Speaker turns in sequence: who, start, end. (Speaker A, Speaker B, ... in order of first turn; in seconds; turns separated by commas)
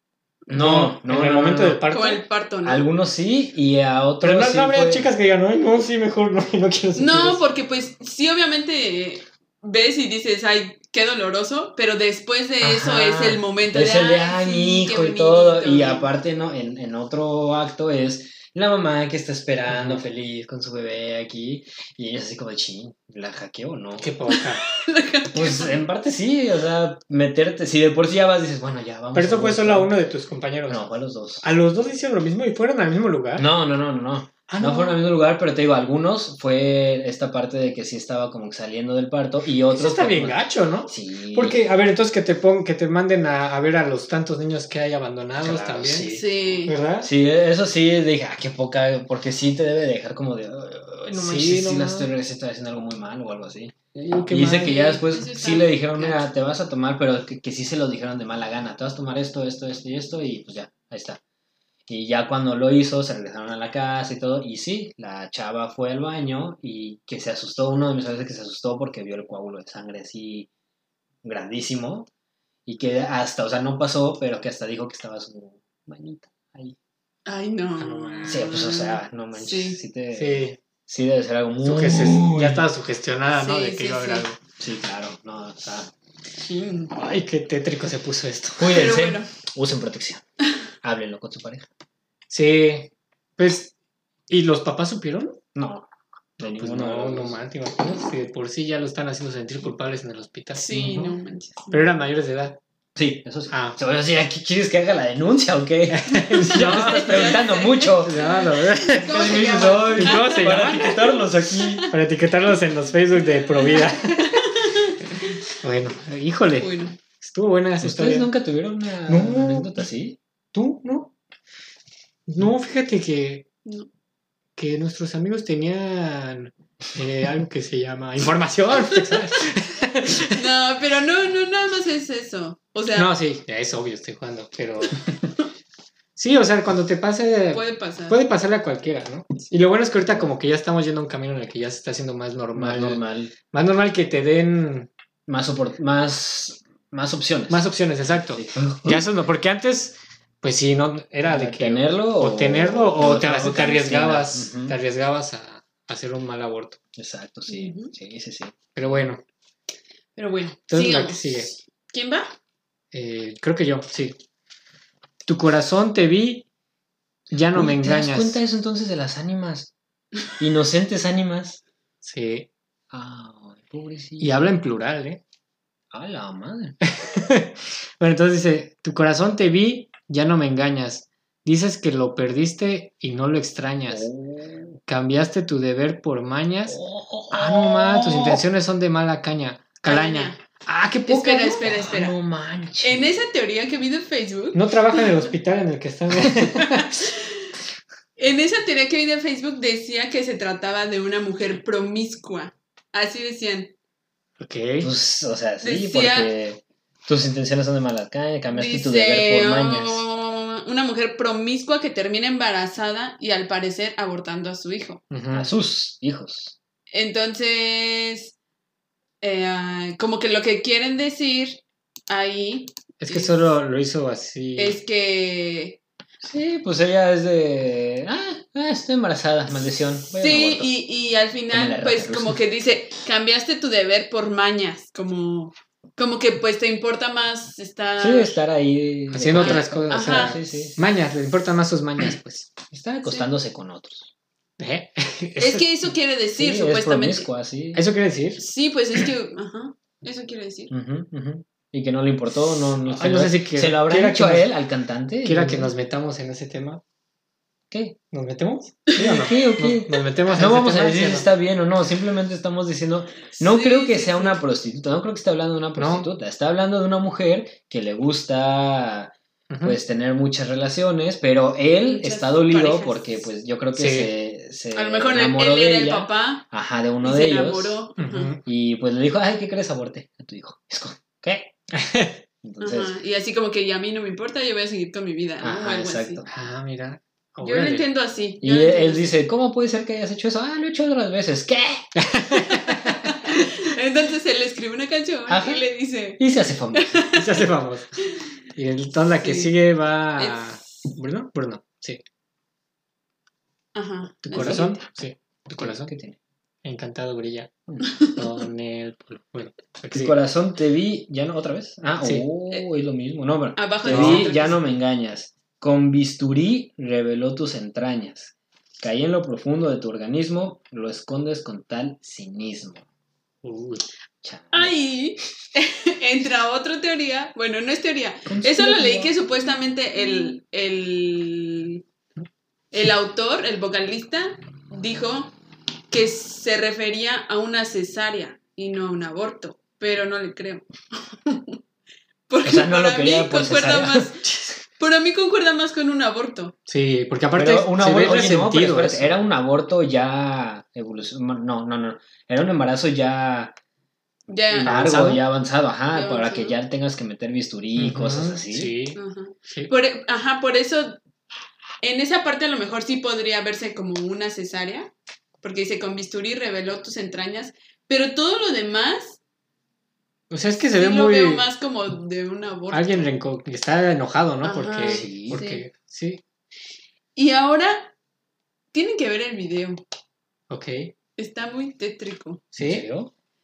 Speaker A: 0.5-1.8, Speaker B: 0.5-2.2, Speaker C: 1.9-2.9, Speaker A: 2.6-5.1, Speaker B: 4.2-7.4, Speaker C: 7.0-16.1, Speaker A: 12.6-24.1, Speaker B: 19.7-20.0, Speaker B: 24.0-24.6, Speaker C: 24.3-25.8, Speaker A: 25.3-29.9, Speaker B: 29.1-30.8, Speaker A: 30.7-31.4, Speaker B: 31.4-33.5, Speaker A: 33.4-41.6, Speaker B: 34.5-35.0, Speaker B: 39.7-47.1, Speaker A: 45.4-46.3, Speaker C: 46.0-46.7, Speaker A: 47.0-61.2, Speaker B: 51.1-52.1, Speaker B: 53.9-54.9, Speaker C: 54.6-56.2, Speaker A: 61.9-70.5, Speaker A: 71.2-72.1, Speaker A: 72.7-76.8, Speaker C: 77.2-79.8, Speaker B: 77.8-78.5, Speaker A: 78.3-82.7, Speaker B: 80.1-80.6, Speaker B: 81.6-84.4, Speaker C: 83.3-84.2, Speaker A: 84.6-85.9, Speaker C: 86.3-86.9, Speaker B: 86.9-88.8, Speaker A: 88.6-90.2, Speaker C: 88.7-89.3, Speaker A: 90.8-91.7, Speaker B: 92.3-93.7, Speaker B: 94.3-95.4, Speaker A: 95.5-95.8, Speaker A: 96.4-97.4, Speaker B: 96.4-101.2, Speaker C: 100.5-101.9, Speaker B: 101.7-102.6, Speaker A: 103.0-108.2, Speaker B: 103.5-103.8, Speaker B: 105.9-107.4, Speaker C: 106.4-111.9, Speaker B: 108.0-111.0, Speaker A: 109.0-111.8, Speaker B: 111.9-114.5, Speaker C: 113.6-115.0, Speaker B: 115.6-118.3, Speaker C: 116.6-116.9, Speaker A: 117.8-120.2, Speaker B: 119.1-119.7, Speaker B: 120.5-121.1, Speaker B: 122.3-123.4, Speaker B: 124.6-130.4, Speaker C: 130.3-133.1, Speaker B: 132.9-135.0, Speaker B: 136.2-144.9, Speaker C: 137.5-138.2, Speaker A: 140.1-140.3, Speaker A: 142.5-143.3, Speaker A: 145.3-147.7, Speaker B: 147.5-156.8, Speaker A: 148.3-149.1, Speaker A: 151.2-154.8, Speaker A: 156.9-159.0, Speaker C: 157.5-157.9, Speaker B: 158.7-159.2, Speaker C: 160.2-162.3, Speaker B: 160.7-161.5, Speaker B: 162.9-164.2, Speaker B: 165.3-166.4, Speaker B: 167.3-168.4, Speaker A: 167.5-169.7, Speaker A: 170.4-171.6, Speaker B: 172.0-172.5, Speaker A: 172.9-174.5, Speaker B: 174.2-175.2, Speaker A: 175.9-176.8, Speaker B: 176.9-184.1, Speaker A: 183.9-184.8, Speaker B: 184.9-186.8, Speaker A: 186.7-188.4, Speaker B: 187.3-191.6, Speaker C: 189.8-190.4, Speaker C: 191.1-192.2, Speaker A: 191.6-193.2, Speaker C: 192.8-195.2, Speaker B: 194.5-197.1, Speaker C: 196.6-197.4, Speaker C: 198.2-203.7, Speaker B: 204.4-204.9, Speaker A: 204.8-210.0, Speaker C: 205.6-206.3, Speaker C: 208.5-215.0, Speaker B: 215.1-215.5, Speaker A: 215.3-216.6, Speaker C: 216.9-218.3, Speaker C: 219.2-223.5, Speaker B: 223.0-224.8, Speaker C: 224.6-225.8, Speaker A: 226.2-230.7, Speaker C: 230.2-238.4, Speaker A: 231.5-232.4, Speaker A: 238.0-240.8, Speaker B: 239.1-242.5, Speaker C: 239.3-240.5, Speaker A: 242.7-244.1, Speaker B: 244.6-245.6, Speaker C: 245.4-247.3, Speaker A: 246.3-247.8, Speaker B: 247.7-248.4, Speaker C: 248.4-250.7, Speaker A: 250.7-255.7, Speaker B: 252.8-254.5, Speaker B: 255.2-256.8, Speaker A: 257.7-258.0, Speaker B: 258.1-261.3, Speaker A: 258.9-277.9, Speaker C: 263.4-264.4, Speaker B: 265.8-266.1, Speaker B: 269.5-269.8, Speaker C: 271.9-273.3, Speaker B: 273.7-274.1, Speaker C: 274.7-276.5, Speaker C: 277.0-278.3, Speaker B: 278.0-278.4, Speaker A: 278.4-281.5, Speaker B: 281.7-282.2, Speaker A: 282.4-282.9, Speaker C: 282.6-286.2, Speaker A: 285.4-286.3, Speaker B: 286.3-287.9, Speaker C: 287.4-289.2, Speaker A: 288.4-291.9, Speaker B: 291.9-293.1, Speaker C: 292.5-297.4, Speaker A: 295.3-297.0, Speaker B: 297.1-297.9, Speaker B: 298.5-302.0, Speaker C: 299.2-299.5, Speaker C: 300.1-300.7, Speaker C: 303.7-304.8, Speaker B: 304.2-305.9, Speaker A: 304.3-304.7, Speaker A: 305.6-306.2, Speaker B: 306.6-310.2, Speaker A: 309.9-322.8, Speaker C: 313.6-314.6, Speaker B: 313.8-314.4, Speaker B: 323.4-323.8, Speaker A: 324.2-324.7, Speaker C: 324.5-331.8, Speaker A: 328.2-329.1, Speaker C: 332.7-335.3, Speaker C: 335.9-341.6, Speaker C: 342.3-346.5, Speaker A: 342.4-344.1, Speaker B: 344.2-344.5, Speaker B: 346.7-349.2, Speaker A: 347.3-353.5, Speaker C: 354.3-355.1, Speaker A: 354.5-358.8, Speaker B: 354.6-355.2, Speaker C: 355.9-356.6, Speaker B: 357.8-359.7, Speaker C: 358.9-361.0, Speaker C: 361.8-369.2, Speaker B: 370.3-371.4, Speaker C: 370.7-373.1, Speaker B: 372.7-376.2, Speaker C: 374.4-375.6, Speaker A: 374.9-375.4, Speaker C: 377.1-377.9, Speaker C: 378.7-379.8, Speaker B: 380.5-380.9, Speaker C: 381.2-382.4, Speaker B: 382.5-382.9, Speaker A: 382.6-383.1